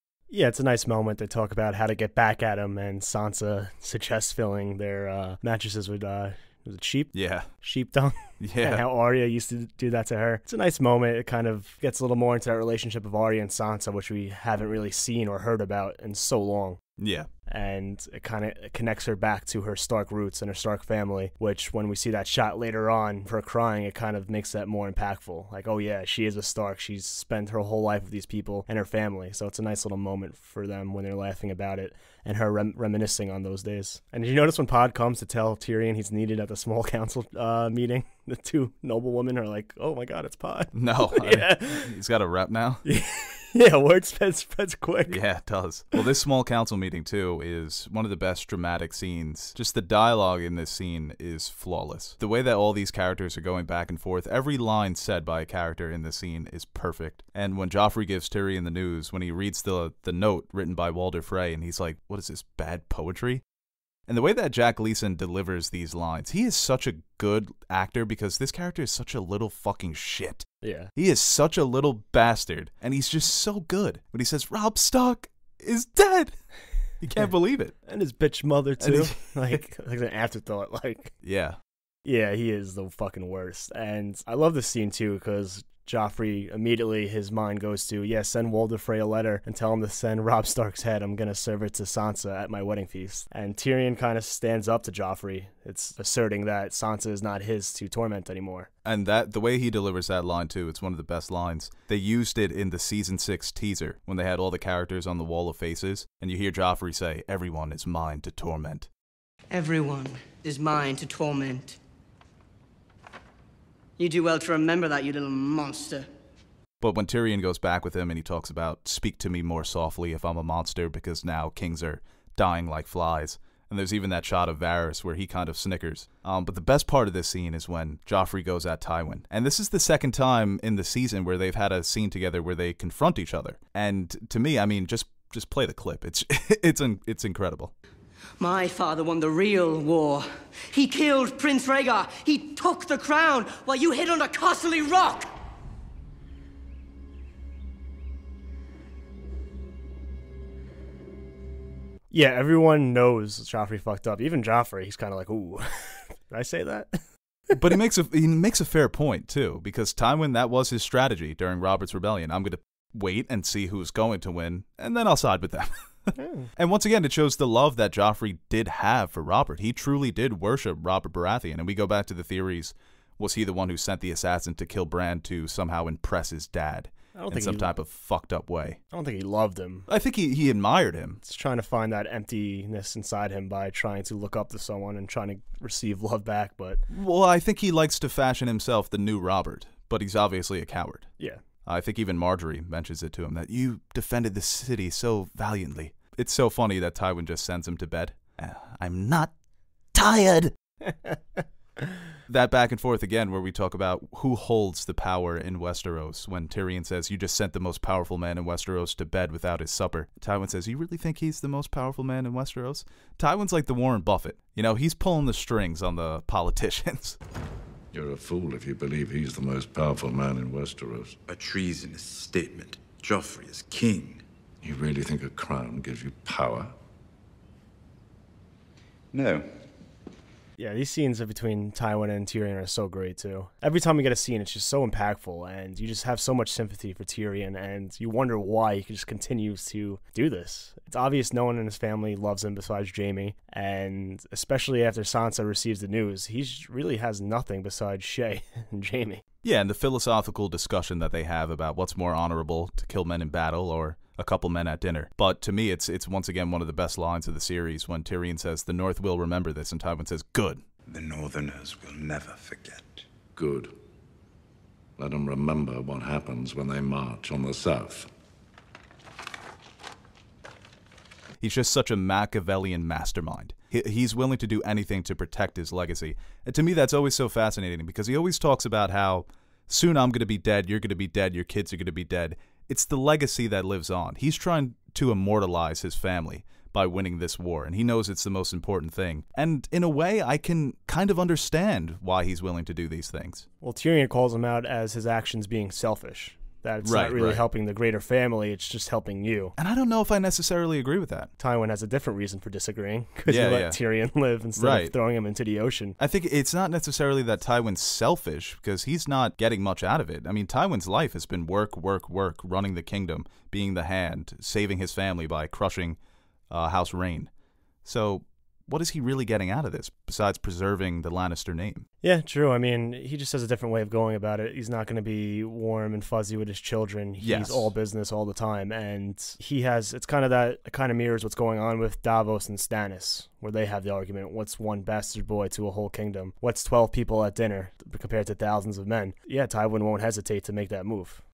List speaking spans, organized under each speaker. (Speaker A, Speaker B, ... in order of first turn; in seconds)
Speaker A: 0.3-16.8, 17.5-41.9, 42.8-45.2, 70.6-70.9, 77.8-81.1, 82.0-98.7, 152.1-157.5, 166.2-166.5, 177.1-177.7, 178.9-179.9, 181.2-186.8, 200.8-201.2, 230.6-249.2, 293.6-299.5, 301.4-306.0, 322.0-341.2
Speaker B: 7.1-7.5, 8.4-8.8, 17.0-17.3, 40.7-42.8, 45.1-63.4, 64.1-76.4, 77.0-77.7, 78.8-79.6, 81.2-81.6, 98.8-108.9, 116.8-137.7, 157.5-178.8, 179.9-181.2, 186.9-191.1, 191.6-199.3, 199.9-200.5, 202.3-217.2, 249.4-260.6, 271.4-293.5, 296.8-297.4, 299.6-301.3, 303.2-303.8, 304.6-304.9, 306.0-316.0, 316.5-317.3, 317.8-321.9, 327.2-327.7
Speaker C: 109.5-111.8, 114.0-116.1, 138.4-145.3
Speaker D: 217.9-221.2, 224.6-226.7, 263.4-263.7, 265.0-268.1
Speaker E: 221.3-224.2, 229.1-229.4, 260.9-263.0